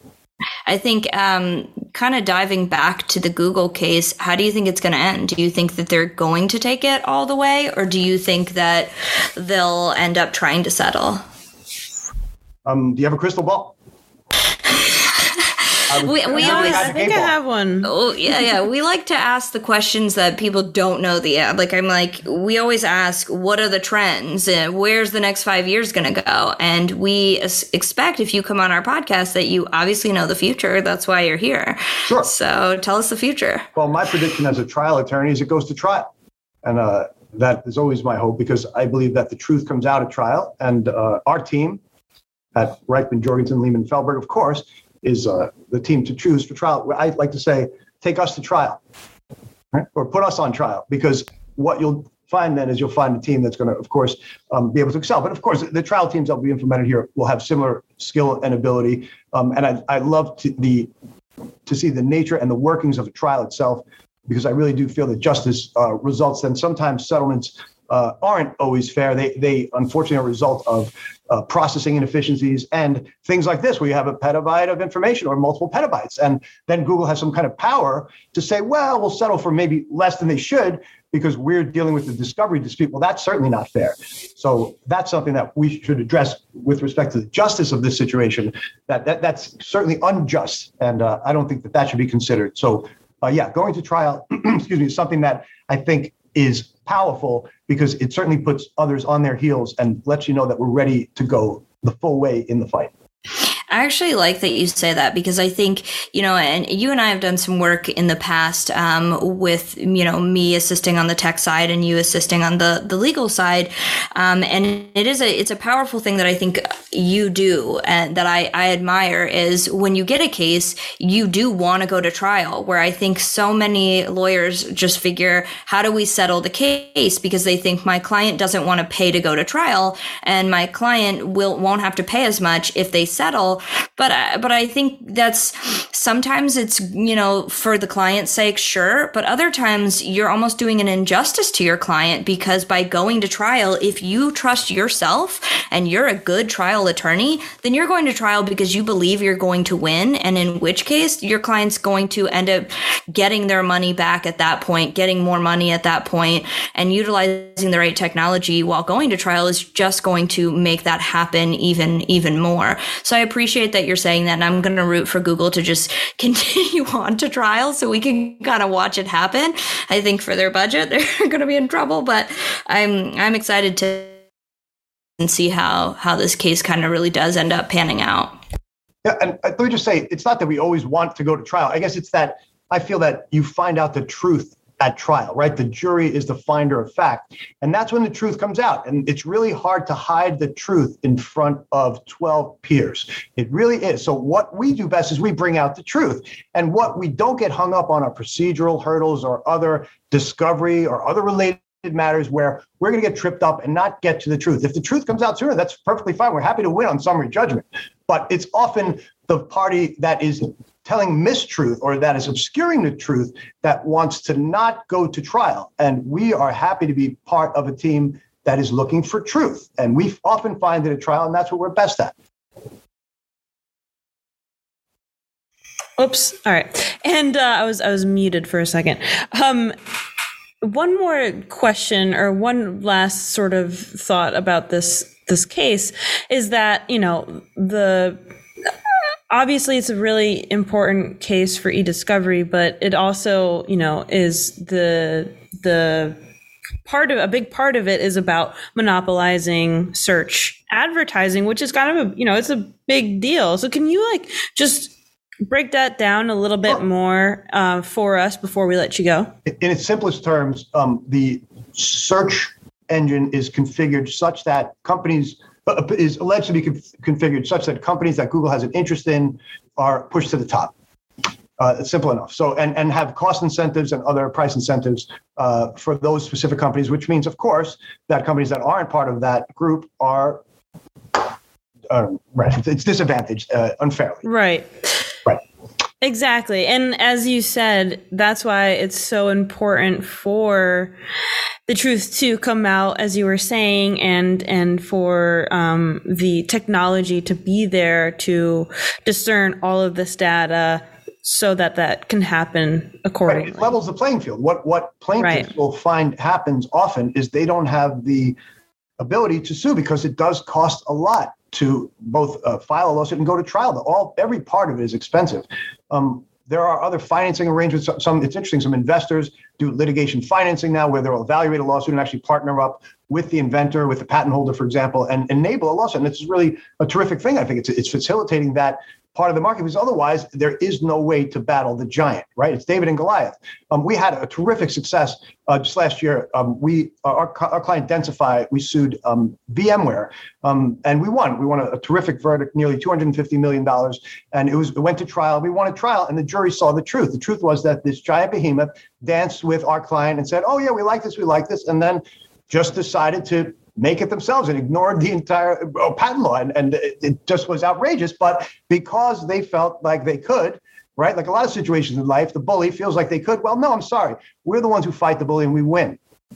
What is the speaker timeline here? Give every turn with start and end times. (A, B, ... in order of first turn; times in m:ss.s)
0:00.7-0:11.2 A
0:12.6-0:13.8 B
0:15.9-0:17.4 B
0:16.0-0:17.2 A
0:16.3-0:17.9 C
0:17.8-0:33.6 A
0:32.0-0:32.3 B
0:33.7-0:36.1 B
0:36.6-0:41.8 B
0:42.5-0:48.8 B
0:49.7-1:00.9 B
1:01.6-1:42.9 B
1:43.7-2:54.2 A
2:55.2-2:58.3 A
2:59.0-3:42.1 B
3:46.0-3:49.7 C
3:50.6-3:58.2 C
3:59.3-4:06.2 C
4:06.8-4:14.9 C
4:15.5-4:19.3 C
4:19.4-4:30.7 B
4:31.6-4:40.4 B
4:41.9-4:44.2 B
4:44.2-4:44.9 C
4:46.0-4:50.9 C
4:51.7-5:03.7 C
5:03.3-5:08.4 B
5:05.2-5:05.5 C
5:09.0-6:06.0 B